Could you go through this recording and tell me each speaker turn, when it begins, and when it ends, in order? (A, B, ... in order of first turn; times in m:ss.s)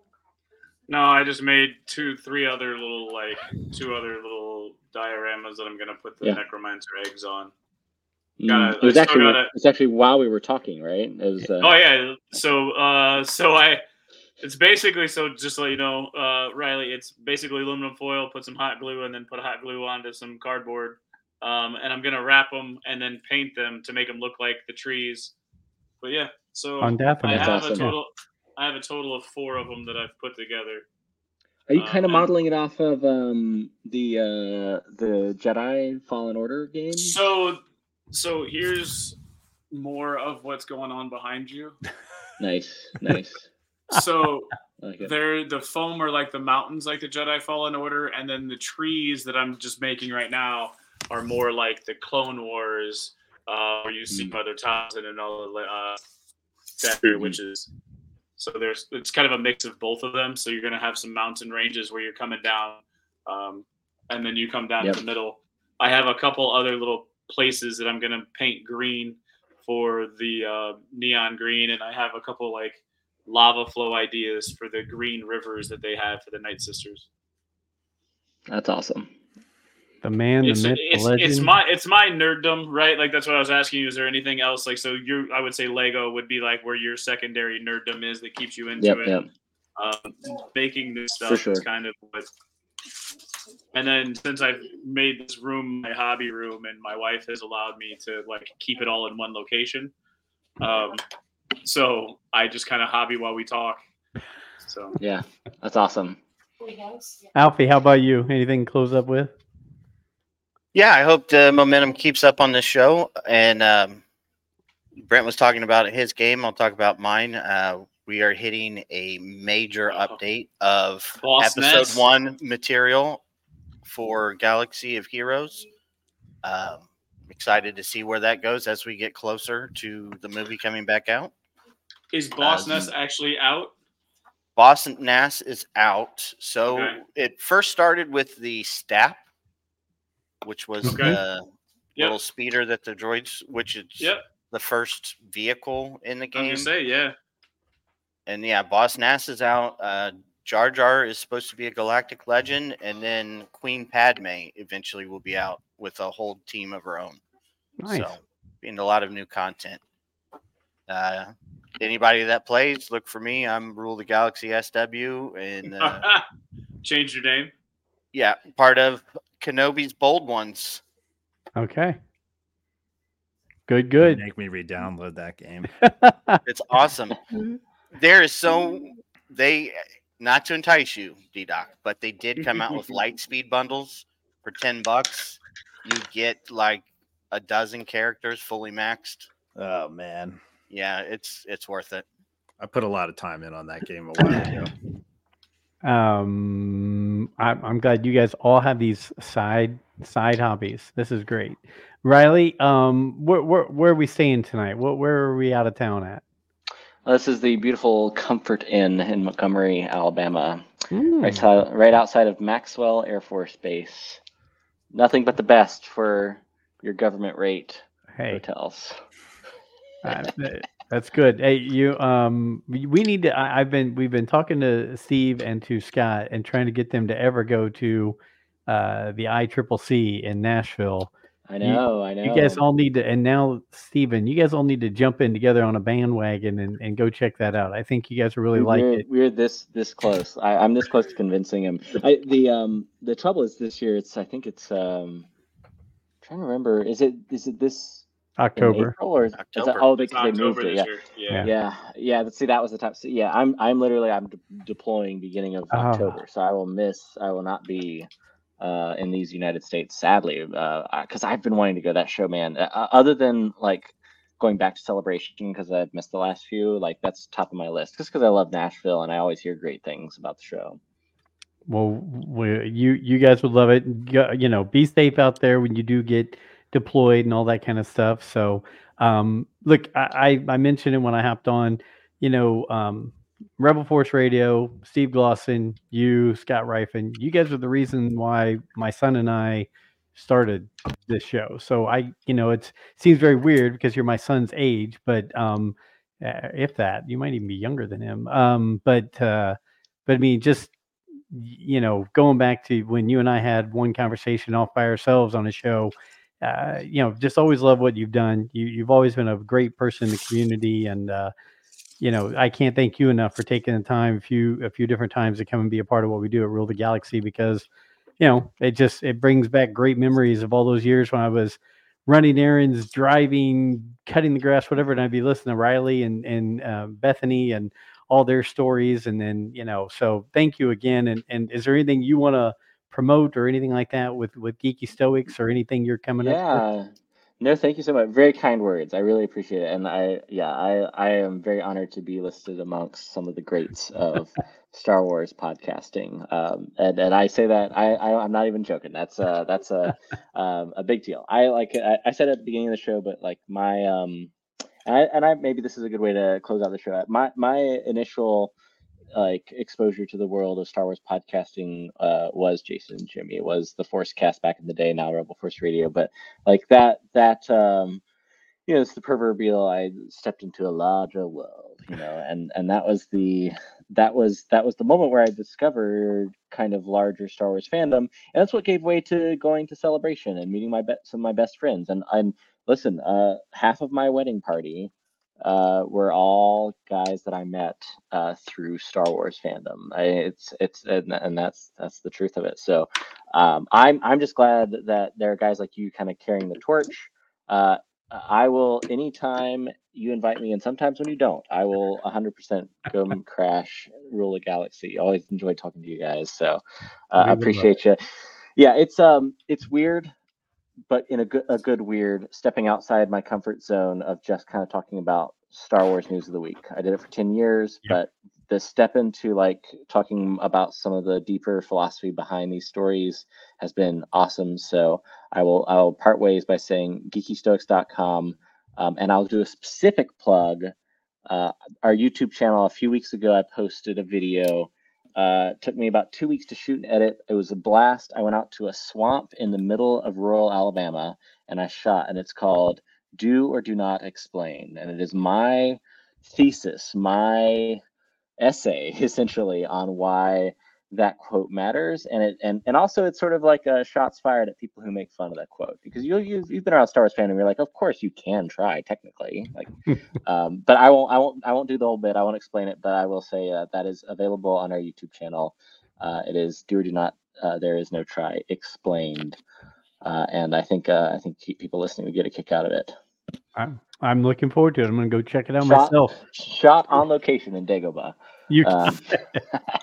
0:00.9-0:07.5 A
0:08.4-0:11.8 B
0:08.5-0:09.5 A
0:11.6-0:13.8 A
0:14.4-0:25.3 A
0:26.0-0:30.8 A
0:26.8-0:28.0 C
0:27.2-0:27.9 B
0:31.7-0:37.2 B
0:31.8-0:32.3 A
0:37.0-0:39.2 A
0:39.7-0:41.8 A
0:42.4-0:43.5 B
0:43.9-0:56.0 A
0:44.8-0:45.1 B
0:56.8-0:57.7 A
0:58.4-1:17.0 A
1:18.5-1:19.1 B
1:20.0-1:21.5 C
1:20.4-1:29.2 A
1:28.8-1:29.2 B
1:29.8-1:32.3 A
1:31.2-1:31.6 B
1:33.7-1:39.9 A
1:40.6-1:41.0 A
1:41.6-1:43.8 A
1:44.6-1:45.0 A
1:45.0-1:46.2 B
1:47.3-1:49.3 C
1:50.7-1:54.0 D
1:55.0-2:03.2 D
1:59.9-2:00.2 A
2:01.2-2:02.0 A
2:03.8-2:05.7 D
2:06.4-2:11.3 D
2:12.1-2:13.7 A
2:12.4-2:12.7 D
2:12.5-2:12.9 B
2:14.6-2:19.2 D
2:16.7-2:17.0 A
2:20.4-2:26.7 D
2:20.8-2:21.2 C
2:20.8-2:21.2 A
2:26.3-2:27.1 A
2:28.3-2:37.2 D
2:37.8-2:38.2 C
2:37.9-2:39.8 D
2:40.9-2:46.0 D
2:45.8-2:46.2 A
2:46.8-2:47.5 A
2:48.1-2:50.8 D
2:51.6-2:52.0 C
2:53.7-2:54.2 C
2:54.0-2:55.7 E
2:55.8-2:56.4 C
2:56.4-2:57.2 D
2:57.9-3:09.3 D
3:09.5-3:10.4 E
3:10.7-3:12.0 D
3:12.6-3:14.7 E
3:15.8-3:26.2 C
3:27.0-3:30.7 B
3:30.9-3:31.5 C
3:31.2-3:34.2 B
3:34.9-3:39.0 B
3:38.2-3:38.4 C
3:40.0-3:48.2 C
3:48.7-3:59.0 C
3:51.5-3:52.6 B
3:58.5-4:05.3 B
4:06.2-4:10.9 B
4:08.4-4:09.0 C
4:09.4-4:09.8 D
4:10.0-4:11.5 A
4:11.4-4:18.1 B
4:15.7-4:16.2 C
4:18.6-4:30.8 B
4:31.7-5:00.7 C
5:01.3-5:11.3 C
5:12.0-5:17.6 C
5:18.2-5:36.6 C
5:36.2-5:54.3 B
5:54.8-5:58.5 B
5:59.1-6:08.0 B
6:08.7-6:48.0 B
6:47.2-6:47.7 C
6:48.6-6:50.1 B
6:50.9-7:10.7 B
7:11.3-7:27.8 B
7:28.4-7:39.7 B
7:40.2-7:49.4 B
7:50.0-7:53.0 B
7:53.6-7:56.2 C
7:55.6-7:59.6 B
7:58.5-7:59.4 C